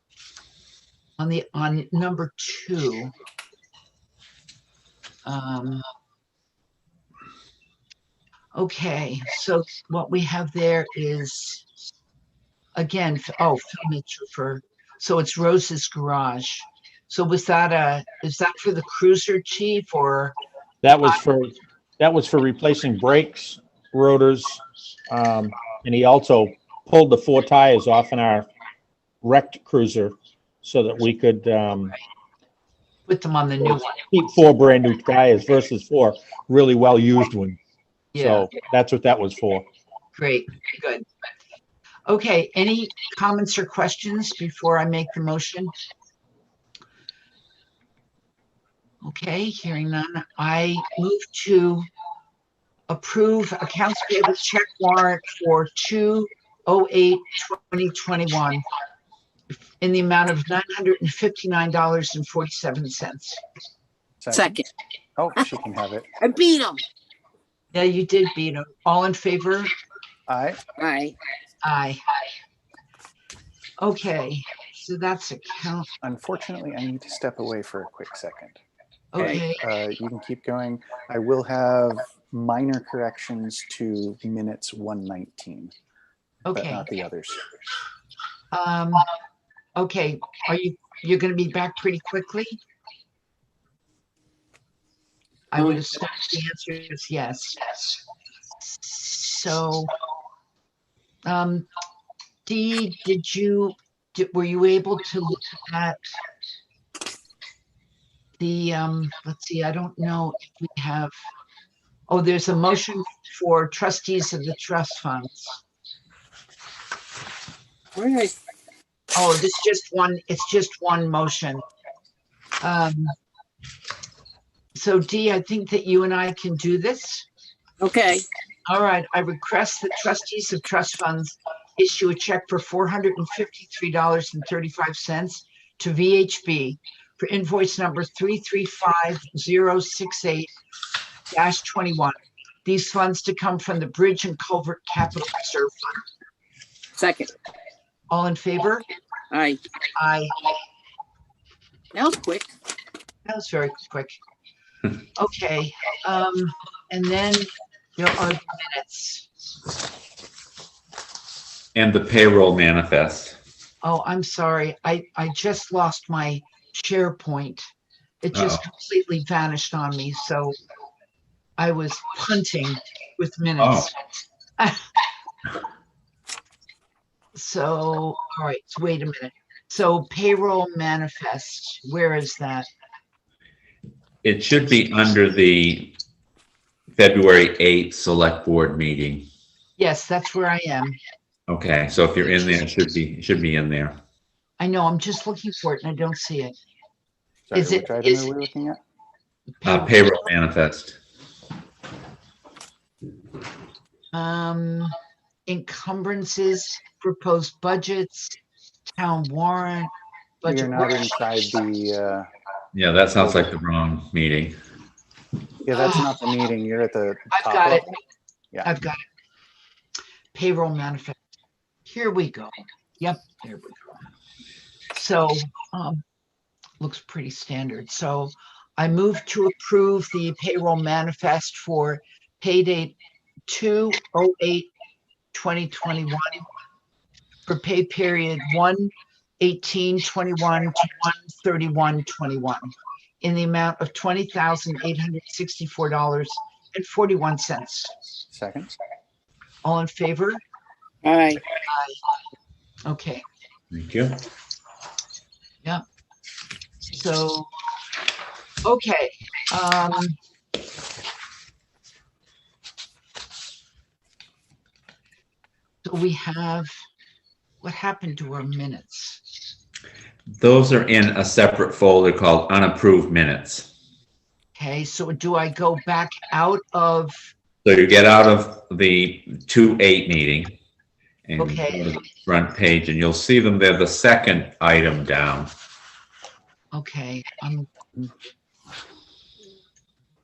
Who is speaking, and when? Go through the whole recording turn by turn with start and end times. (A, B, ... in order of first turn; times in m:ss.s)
0:01.2-0:03.1 A
0:05.2-0:05.8 A
0:08.5-0:11.7 A
0:12.8-0:20.4 A
0:20.8-0:28.5 B
0:29.2-0:31.9 B
0:33.1-0:34.0 A
0:33.6-0:37.6 B
0:38.1-0:38.5 A
0:38.2-0:39.7 B
0:40.1-0:41.1 A
0:42.1-0:45.7 A
0:49.0-0:51.9 A
0:52.9-0:58.6 A
0:59.8-1:03.4 A
1:04.2-1:04.6 C
1:04.3-1:04.6 D
1:05.2-1:06.1 C
1:06.2-1:06.8 D
1:07.7-1:09.7 A
1:10.3-1:10.6 C
1:10.8-1:11.2 D
1:11.6-1:12.0 A
1:13.8-1:15.9 A
1:16.0-1:18.6 C
1:19.1-1:19.6 A
1:19.2-1:25.7 C
1:26.4-1:26.9 A
1:26.5-1:27.4 C
1:28.5-1:29.0 A
1:29.8-1:32.6 A
1:35.5-1:38.0 A
1:38.6-1:39.9 A
1:41.2-1:41.7 A
1:42.4-1:46.0 A
1:48.4-1:51.1 A
1:52.1-1:55.6 A
1:58.0-1:58.3 D
1:59.1-2:01.6 A
2:02.6-2:03.1 A
2:04.8-2:07.3 A
2:07.8-2:08.2 D
2:08.7-2:20.5 A
2:21.3-2:26.0 A
2:27.0-2:27.3 D
2:28.1-2:28.8 A
2:29.3-2:29.6 D
2:30.0-2:30.3 A
2:31.9-2:32.5 D
2:33.2-2:34.1 A
2:35.2-2:39.2 A
2:41.7-2:43.4 E
2:43.8-2:47.7 A
2:48.2-2:50.6 A
2:48.3-2:48.6 E
2:51.6-2:53.9 A
2:53.6-2:53.9 E
2:54.6-2:54.8 A
2:57.3-3:02.7 A
3:04.2-3:05.9 E
3:06.9-3:09.3 E
3:09.8-3:11.0 A
3:11.5-3:14.0 E
3:14.6-3:16.6 A
3:17.5-3:18.8 C
3:17.5-3:18.3 A
3:19.6-3:20.1 A
3:19.6-3:21.0 E
3:24.1-3:24.9 A
3:25.5-3:28.4 A
3:29.0-3:29.9 A
3:30.4-3:31.1 A
3:30.4-3:32.3 C
3:32.7-3:34.6 E
3:35.6-3:37.9 C
3:35.7-3:36.1 A
3:37.3-3:37.9 A
3:38.6-3:39.0 A
3:40.3-3:41.2 A
3:41.9-3:44.0 A
3:44.9-3:46.0 A
3:46.8-3:53.0 A
3:53.5-3:54.7 A
3:55.3-3:56.5 A
3:57.5-4:07.9 A
4:08.3-4:08.8 C
4:09.6-4:10.4 A
4:11.0-4:11.4 D
4:11.6-4:12.0 A
4:12.8-4:13.2 A
4:13.7-4:14.2 E
4:16.9-4:17.5 A
4:18.6-4:20.2 A
4:25.8-4:26.7 A
4:27.6-4:29.2 A
4:30.4-4:33.7 E
4:34.6-4:37.2 A
4:37.6-4:40.6 E
4:41.3-4:45.5 E
4:41.4-4:41.9 A
4:46.7-4:48.1 A